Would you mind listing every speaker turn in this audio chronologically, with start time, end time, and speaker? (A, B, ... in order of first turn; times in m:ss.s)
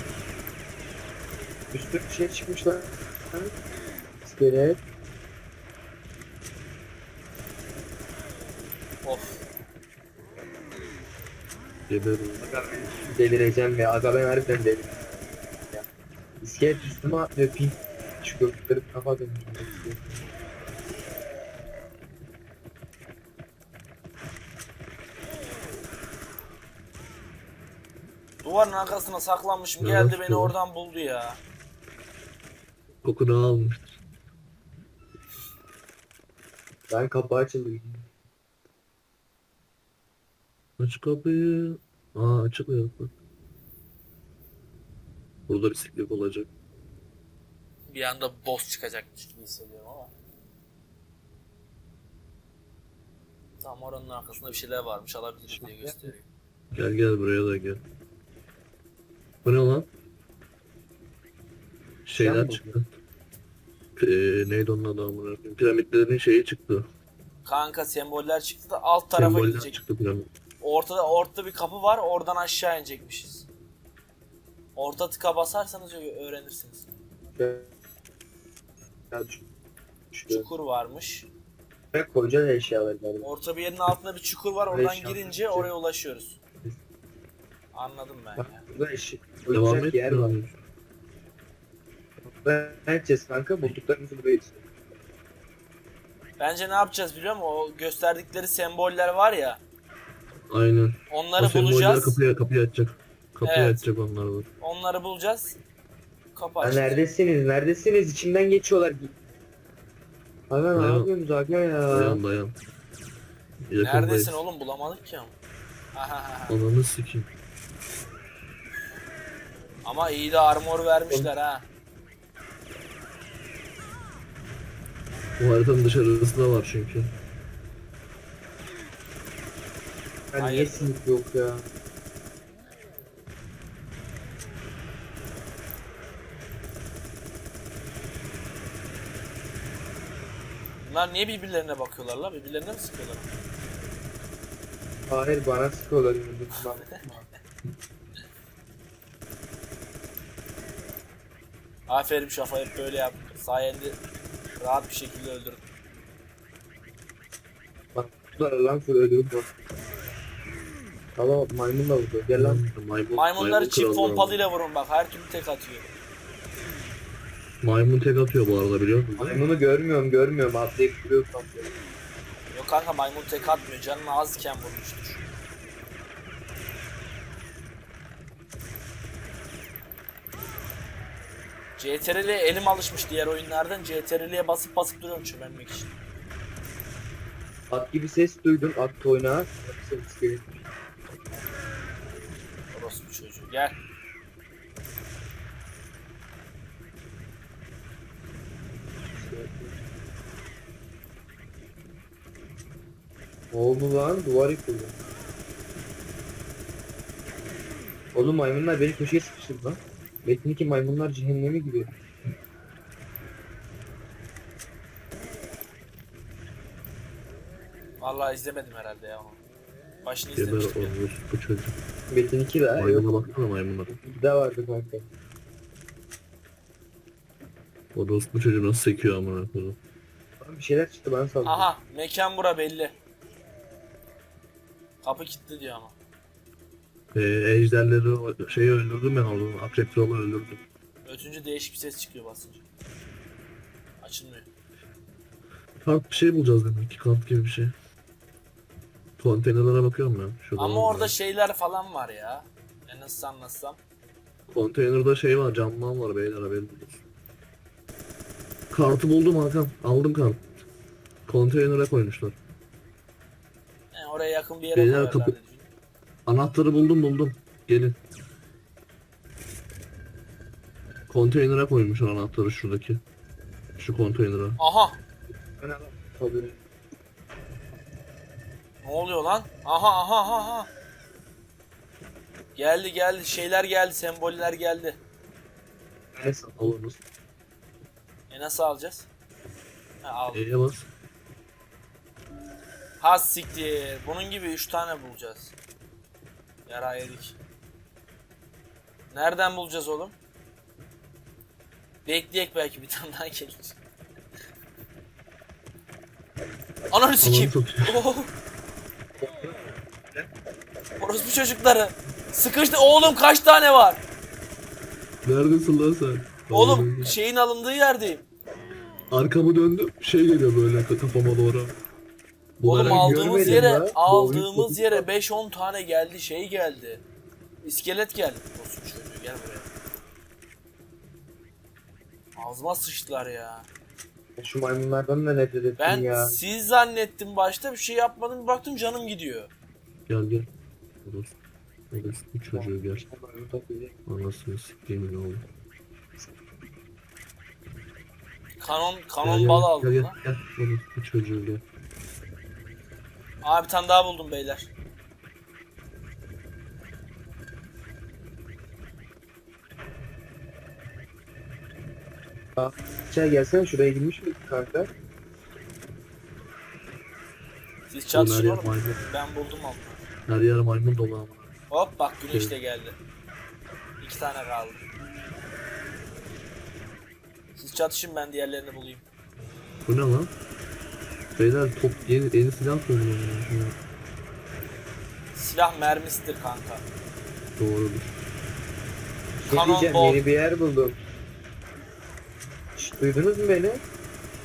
0:01.7-0:03.5 A
0:04.2-0:04.8 A
0:09.0-0:09.4 B
0:11.9-0:12.5 C
0:12.4-0:15.0 A
0:16.4-0:20.2 A
0:28.4-0:31.4 B
0:29.8-0:30.6 C
0:33.0-0:34.0 C
0:36.9-0:38.1 A
0:40.8-0:43.1 C
0:45.5-0:46.5 C
0:47.9-0:50.1 B
0:53.6-0:56.2 B
0:55.5-0:56.1 A
0:56.7-0:57.8 C
0:59.4-0:59.9 C
1:02.0-1:03.0 C
1:02.2-1:02.7 A
1:04.0-1:06.9 C
1:07.4-1:09.8 B
1:09.2-1:10.3 C
1:10.6-1:13.5 B
1:14.8-1:16.8 B
1:17.4-1:17.7 A
1:19.1-1:19.4 A
1:20.1-1:20.5 A
1:20.3-1:21.3 B
1:21.9-1:23.3 A
1:23.2-1:26.4 B
1:24.7-1:25.7 A
1:27.7-1:28.6 B
1:28.4-1:30.4 A
1:29.5-1:30.5 C
1:32.2-1:34.6 A
1:36.4-1:39.6 B
1:40.5-1:44.5 C
1:41.1-1:42.2 B
1:43.4-1:43.8 B
1:44.6-1:45.6 B
1:46.4-1:47.0 B
1:46.6-1:49.1 A
1:50.5-1:52.2 A
1:50.7-1:51.1 C
1:51.9-1:52.6 C
1:53.7-1:54.4 C
1:53.8-1:55.4 B
1:55.9-1:56.6 B
1:56.5-1:57.3 C
1:59.8-2:01.7 B
2:05.4-2:07.1 C
2:10.3-2:11.7 A
2:10.4-2:10.9 B
2:20.8-2:23.3 B
2:25.1-2:27.3 A
2:31.9-2:34.0 B
2:34.6-2:35.6 B
2:38.0-2:39.5 A
2:41.2-2:42.6 A
2:42.3-2:44.4 C
2:43.2-2:45.9 B
2:47.6-2:49.4 C
2:49.2-2:51.7 A
2:52.5-2:55.2 B
3:01.8-3:05.9 B
3:07.7-3:10.6 A
3:12.7-3:13.8 B
3:19.2-3:19.8 A
3:23.5-3:25.0 A
3:28.1-3:31.9 A
3:38.0-3:39.4 B
3:40.0-3:40.9 B
3:40.4-3:41.8 C
3:42.1-3:43.1 A
3:42.8-3:43.9 C
3:43.9-3:45.1 A
3:47.9-3:49.8 C
3:50.4-3:51.7 A
3:51.4-3:52.9 B
3:55.0-3:56.0 B
3:57.1-4:00.6 C
4:01.0-4:02.6 B
4:04.0-4:04.5 B
4:05.8-4:07.7 C
4:09.2-4:11.1 C
4:10.6-4:13.8 B
4:14.5-4:17.0 C
4:18.7-4:20.4 C
4:21.3-4:22.4 C
4:23.9-4:25.7 B
4:24.7-4:25.4 C
4:26.3-4:28.0 C
4:31.1-4:33.0 C
4:33.8-4:34.6 C
4:34.6-4:35.0 B
4:35.6-4:36.6 A
4:38.8-4:40.7 B
4:42.6-4:45.0 B
4:46.1-4:47.0 A
4:46.6-4:47.0 C
4:48.3-4:49.1 B
4:50.0-4:50.4 B
4:50.3-4:50.9 C
4:53.0-4:55.5 B
4:56.7-4:57.4 B
4:59.1-5:00.2 B
5:02.1-5:03.8 B
5:06.9-5:08.3 B
5:07.2-5:08.0 C
5:09.2-5:09.6 A
5:11.0-5:14.0 B
5:15.2-5:17.1 C
5:16.5-5:18.2 B
5:19.1-5:21.8 C
5:22.6-5:23.7 C
5:22.6-5:27.0 B
5:22.8-5:25.1 A
5:27.6-5:29.7 B
5:32.4-5:33.7 B
5:34.4-5:36.4 A
5:35.8-5:39.5 B
5:40.1-5:40.5 C
5:41.0-5:41.3 C
5:41.9-5:43.0 C
5:42.5-5:44.0 A
5:44.1-5:45.4 C
5:48.6-5:50.2 B
5:49.2-5:51.6 C
5:53.4-5:54.7 B
6:02.6-6:04.9 A
6:07.9-6:10.0 B
6:08.1-6:09.0 C
6:10.3-6:11.5 C
6:11.7-6:13.0 B
6:12.3-6:12.6 C
6:14.0-6:14.8 B
6:17.6-6:19.0 B
6:19.8-6:20.3 C
6:21.4-6:23.8 C
6:25.4-6:26.8 B
6:27.6-6:28.1 C
6:29.4-6:31.0 A
6:29.5-6:30.2 B
6:32.8-6:33.8 A